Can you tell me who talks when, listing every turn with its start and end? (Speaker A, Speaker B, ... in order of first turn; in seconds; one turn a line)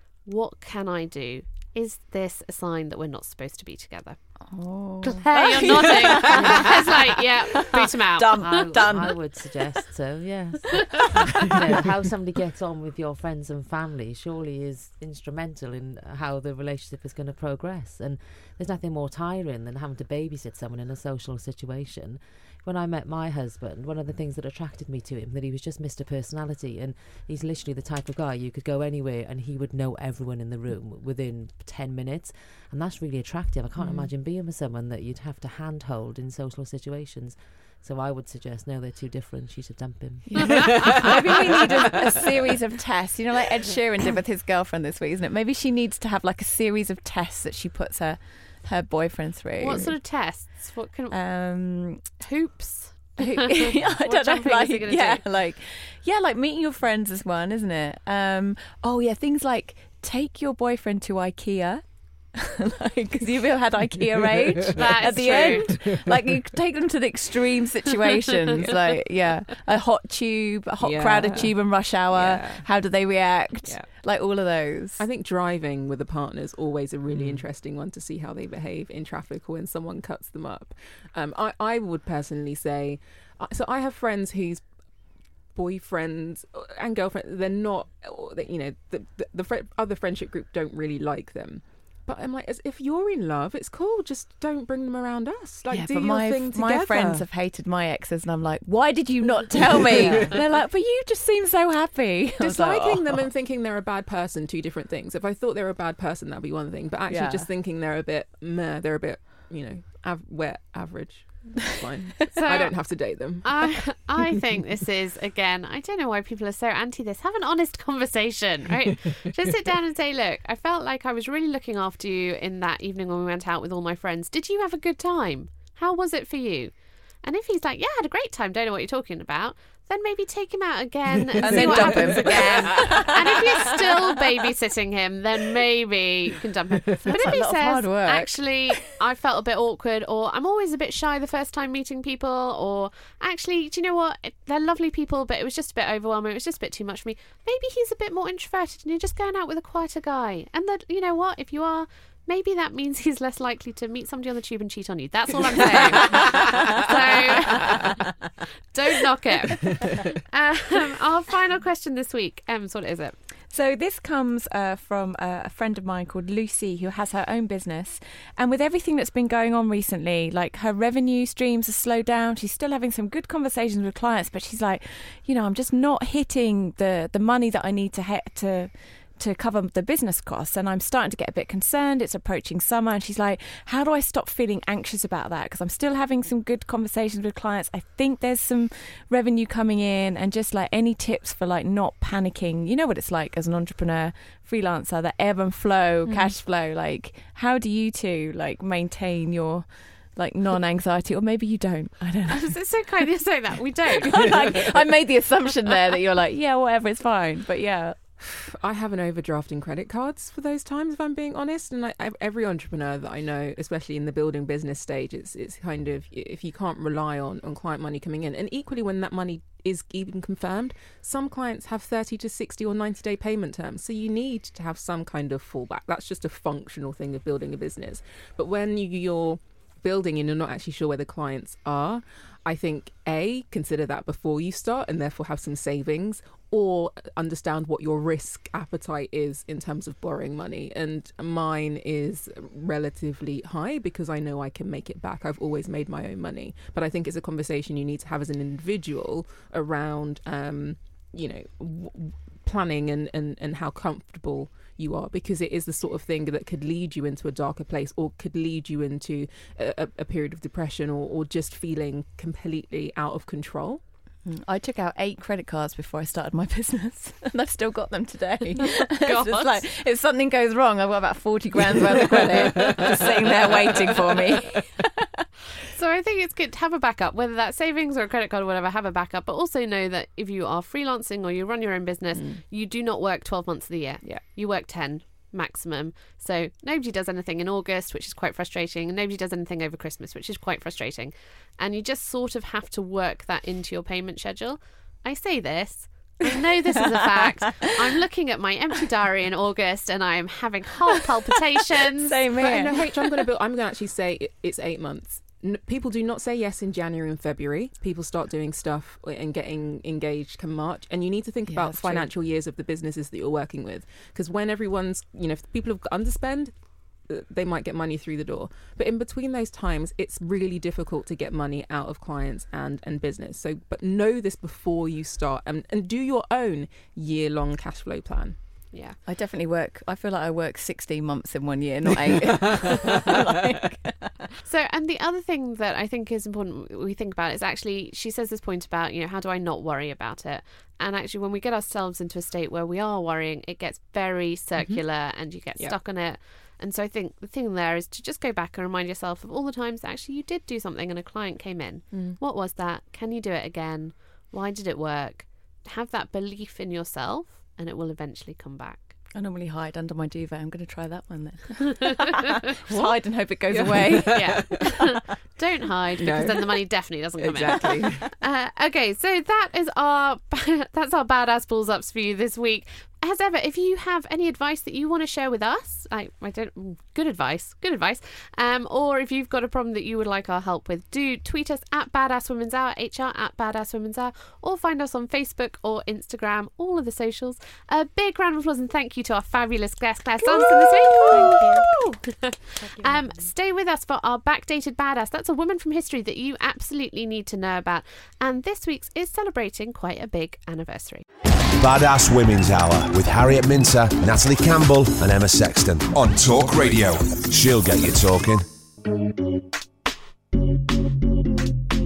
Speaker A: 0.2-4.4
Speaker B: 4.5-9.2
Speaker A: 5.0-8.7
Speaker C: 6.3-6.7
Speaker C: 8.3-42.0
Speaker D: 33.8-34.1
Speaker B: 40.3-50.0
Speaker A: 49.6-51.2
Speaker B: 51.1-52.1
Speaker A: 52.2-55.2
Speaker B: 53.2-75.0
Speaker D: 64.5-66.1
Speaker A: 64.7-65.7
Speaker D: 68.6-69.0
Speaker D: 70.8-72.7
Speaker D: 73.6-73.9
Speaker D: 75.0-84.7
Speaker D: 85.5-97.3
Speaker B: 95.7-103.3
Speaker D: 99.8-100.4
Speaker D: 102.4-113.9
Speaker B: 107.1-107.5
Speaker A: 112.4-157.9
Speaker B: 131.3-134.2
Speaker D: 131.5-132.8
Speaker B: 137.0-138.9
Speaker B: 156.1-156.6
Speaker A: 158.7-163.2
Speaker B: 163.5-202.9
Speaker A: 196.1-196.3
Speaker A: 202.3-204.3
Speaker B: 203.9-208.0
Speaker D: 208.2-263.8
Speaker B: 264.2-275.0
Speaker A: 269.0-269.6
Speaker D: 272.1-274.0
Speaker A: 275.7-302.2
Speaker D: 282.1-282.4
Speaker B: 296.9-297.7
Speaker B: 301.9-303.3
Speaker D: 302.4-328.4
Speaker B: 311.5-312.1
Speaker A: 328.7-329.0
Speaker B: 329.1-334.1
Speaker A: 334.4-358.9
Speaker D: 351.9-352.2
Speaker B: 359.1-362.1
Speaker B: 362.7-364.4
Speaker D: 363.5-364.6
Speaker A: 364.1-401.0
Speaker D: 366.0-366.6
Speaker D: 367.2-368.1
Speaker B: 390.4-391.7
Speaker B: 392.7-393.2
Speaker E: 401.6-408.4